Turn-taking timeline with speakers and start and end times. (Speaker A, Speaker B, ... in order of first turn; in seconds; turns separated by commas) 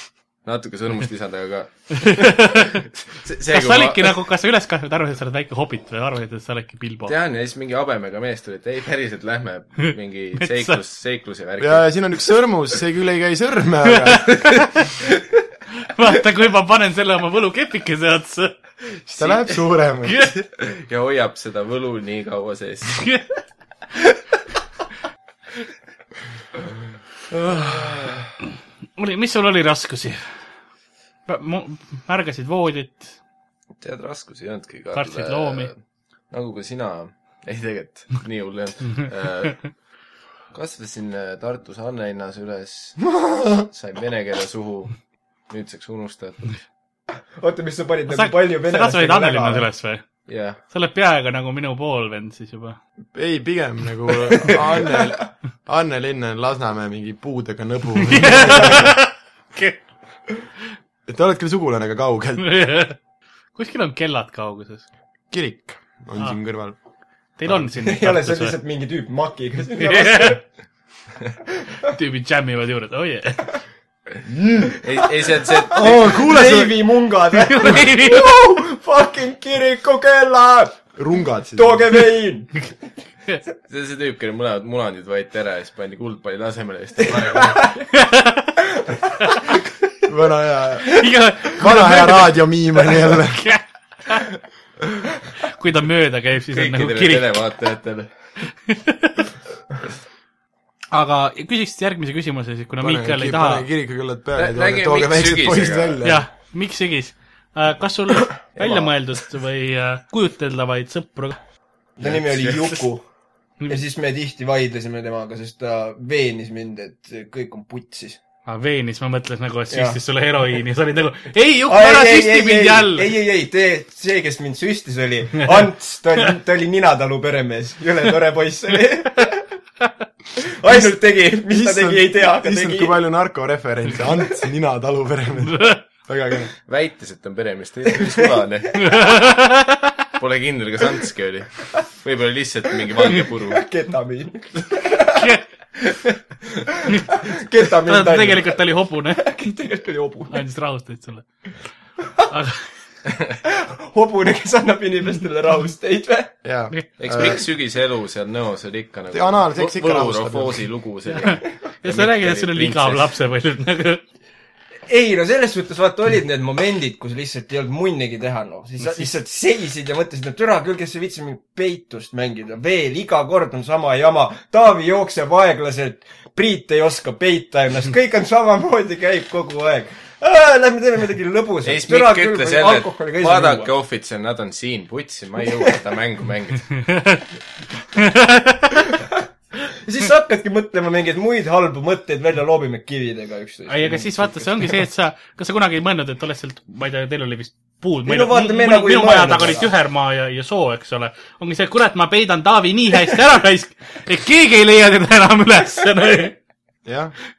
Speaker A: 0.4-4.2, Speaker B: 1.9-2.8, Speaker B: 3.5-7.1, Speaker A: 7.1-11.8, Speaker B: 10.4-10.8, Speaker C: 11.6-14.6, Speaker B: 14.1-15.0, Speaker B: 15.8-18.5, Speaker C: 19.1-20.3, Speaker B: 20.1-20.3, Speaker A: 20.6-23.0, Speaker B: 22.9-23.2, Speaker A: 27.3-28.3, Speaker B: 29.0-30.2, Speaker B: 31.3-33.1, Speaker A: 33.8-35.8, Speaker B: 34.9-35.7, Speaker A: 36.3-39.6, Speaker A: 40.5-45.0, Speaker A: 45.5-46.6, Speaker D: 47.4-49.7, Speaker B: 48.1-50.0, Speaker A: 50.3-50.6, Speaker B: 50.7-52.8, Speaker C: 53.1-59.0, Speaker B: 58.0-59.8, Speaker C: 61.1-62.5, Speaker B: 62.4-63.0, Speaker B: 63.5-64.8, Speaker C: 65.3-66.8, Speaker B: 67.4-68.5, Speaker D: 67.8-70.4, Speaker B: 69.8-70.4, Speaker B: 71.9-73.5, Speaker C: 74.2-74.8, Speaker A: 74.8-76.1, Speaker D: 75.4-80.9, Speaker C: 75.7-76.8, Speaker B: 77.3-78.3, Speaker C: 81.0-81.9, Speaker D: 81.5-82.7, Speaker A: 83.7-87.8, Speaker D: 87.2-87.7, Speaker B: 87.9-88.6, Speaker B: 89.2-89.5, Speaker C: 90.0-93.4, Speaker B: 90.9-94.3, Speaker B: 95.4-97.3, Speaker A: 96.5-98.1, Speaker B: 98.7-99.2, Speaker B: 100.9-103.7, Speaker C: 102.8-106.2, Speaker A: 104.4-106.0, Speaker B: 106.0-111.4, Speaker D: 112.0-113.0, Speaker A: 112.0-112.8, Speaker D: 113.7-118.2, Speaker B: 118.5-123.1, Speaker D: 119.7-120.0, Speaker D: 121.7-129.4, Speaker D: 130.4-133.0, Speaker C: 131.5-136.5, Speaker B: 135.4-135.8, Speaker A: 136.7-139.2, Speaker D: 137.9-138.2, Speaker B: 138.8-139.9, Speaker A: 140.2-143.6, Speaker D: 143.0-145.3, Speaker B: 145.1-145.4, Speaker D: 145.8-146.1, Speaker D: 146.7-148.6, Speaker B: 146.8-147.3, Speaker B: 147.8-149.3, Speaker D: 149.2-150.4, Speaker B: 150.3-151.2, Speaker B: 152.3-152.6, Speaker D: 153.4-156.3, Speaker C: 156.4-157.4, Speaker A: 157.0-163.1, Speaker C: 159.1-160.7, Speaker B: 161.1-164.0, Speaker D: 164.9-183.7, Speaker B: 168.8-169.1, Speaker A: 181.6-186.8, Speaker B: 186.8-187.2, Speaker B: 187.9-188.8, Speaker D: 189.7-194.6, Speaker B: 193.7-206.4, Speaker D: 198.1-199.7, Speaker C: 206.8-207.1